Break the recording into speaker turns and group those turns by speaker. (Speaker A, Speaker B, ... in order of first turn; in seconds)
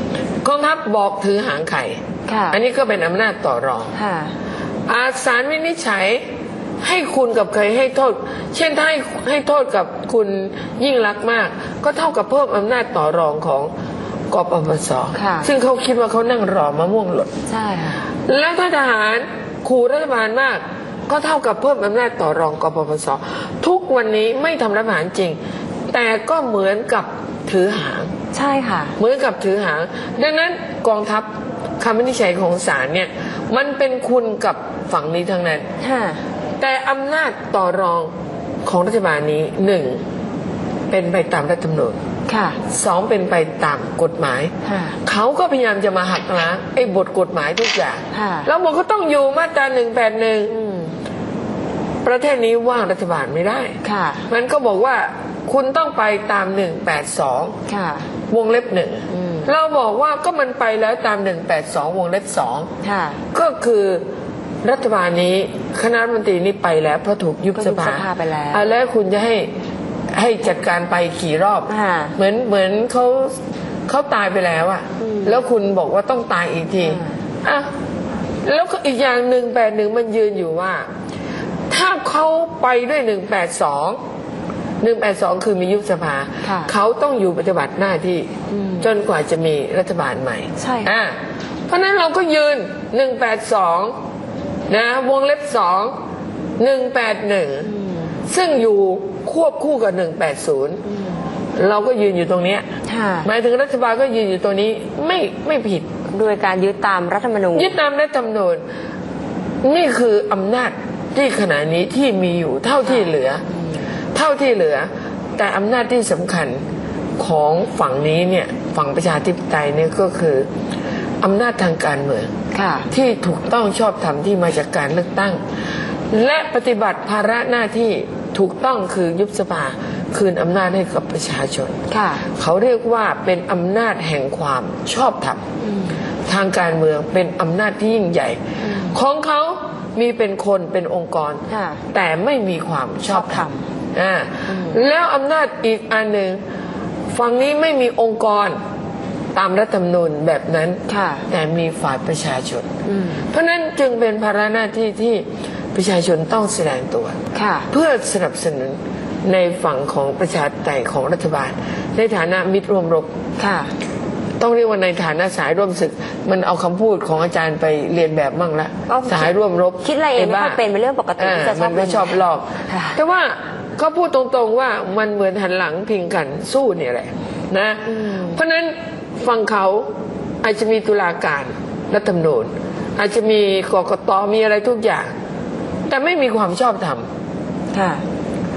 Speaker A: 0.4-3.9, 4.9-6.2, 6.8-13.7, 14.3-17.3, 18.2-25.4, 25.9-28.1, 29.0-31.3, 31.8-35.7, 36.6-38.1, 38.6-40.0, 40.9-42.0, 42.7-50.5, 52.0-53.8, 54.3-57.6, 58.3-62.7, 63.3-64.0, 64.6-69.5, 70.1-73.4, 73.9-77.7, 78.5-80.9, 81.7-84.0, 84.8-91.2, 91.7-93.9, 94.7-95.9, 96.6-97.7, 98.3-100.8, 101.6-102.7, 103.2-105.9, 107.5-108.6, 109.6-113.4, 114.1-116.6, 117.2-120.5, 121.2-122.3, 122.9-125.4, 126.1-131.8, 132.3-135.4, 136.3-146.4, 147.1-148.6, 149.3-152.7, 153.3-157.2, 157.7-163.1, 164.4-170.6, 171.2-179.9, 180.4-185.1, 185.9-187.1
Speaker B: 2.3-2.6, 4.0-4.3, 15.2-15.5, 17.5-18.1, 28.3-28.9, 35.8-36.2, 42.3-42.6, 44.6-45.0, 48.1-48.5, 50.5-50.9, 53.8-54.3, 57.7-58.1, 59.1-59.5, 62.8-63.2, 67.6-68.7, 71.7-72.2, 75.0-75.4, 76.8-77.2, 86.4-86.7, 88.5-88.9, 90.6-90.9, 97.7-98.1, 100.9-101.2, 102.9-103.3, 106.1-107.8, 122.5-122.9, 131.9-132.2, 135.6-136.0, 138.6-138.9, 141.5-141.8, 143.1-143.7, 144.5-144.8, 150.9-151.2, 152.9-153.2, 157.3-157.7, 163.4-163.7, 168.9-169.3, 169.8-173.0, 177.9-178.4, 187.7-188.0